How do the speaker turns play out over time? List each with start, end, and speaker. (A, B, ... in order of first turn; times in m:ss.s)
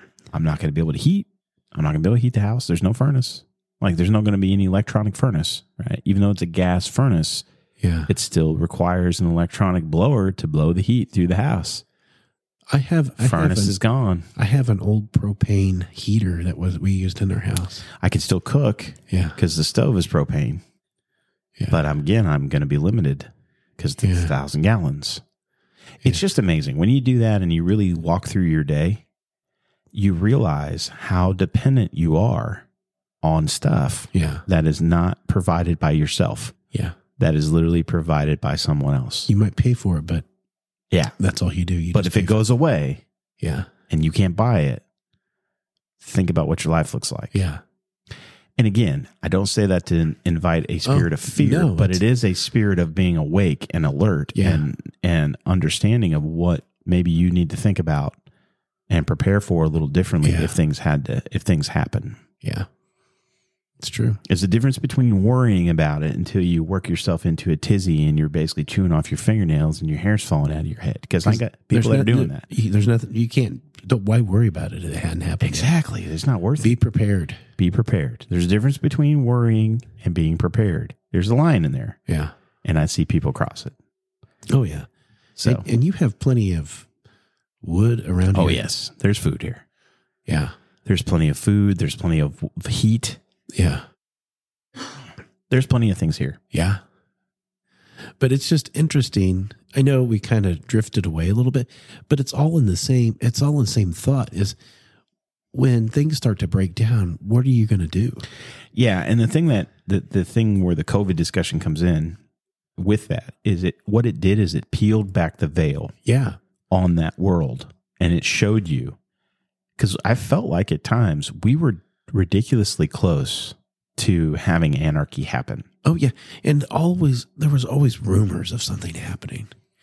0:00.3-0:07.4 A
0:07.8-0:08.1 B
0:08.1-0:11.8 A
0:12.7-0:13.8 B
0:13.2-0:14.3 A
0:14.4-0:17.8 B
0:18.0-0:20.6 A
0:19.1-0:19.4 B
0:21.7-0:25.2 A
0:24.0-0:24.3 B
0:26.0-0:29.0 A
0:29.9-0:32.6 A
0:33.2-0:36.6 A
0:34.1-0:34.4 B
0:37.2-0:39.3 A
0:39.3-0:40.3 B
0:41.2-0:42.4 B
0:41.9-0:43.0 A
0:43.4-0:43.7 B
0:43.9-0:44.8 A
0:46.0-0:47.4 A
0:47.3-0:47.6 B
0:48.6-0:58.2 A
0:50.9-0:52.0 B
0:54.4-0:54.6 B
0:58.9-1:02.2 A
1:00.2-1:00.6 B
1:02.4-1:02.7 B
1:03.8-1:04.2 B
1:04.3-1:12.5 A
1:11.2-1:15.7 B
1:15.4-1:16.8 A
1:16.6-1:17.4 B
1:17.6-1:22.0 A
1:22.1-1:22.3 B
1:22.6-1:23.8 A
1:24.5-1:26.9 B
1:25.4-1:25.6 A
1:27.6-1:28.6 B
1:28.3-1:29.6 A
1:30.3-1:30.6 B
1:30.9-1:33.2 A
1:33.5-1:33.8 B
1:35.5-1:36.4 A
1:36.5-1:36.8 B
1:38.2-1:44.6 B
1:45.5-1:48.3 B
1:48.7-1:52.2 A
1:52.8-1:55.9 A
1:56.0-1:56.4 B
1:56.7-1:59.0 A
1:59.8-2:05.7 A
2:05.8-2:09.5 B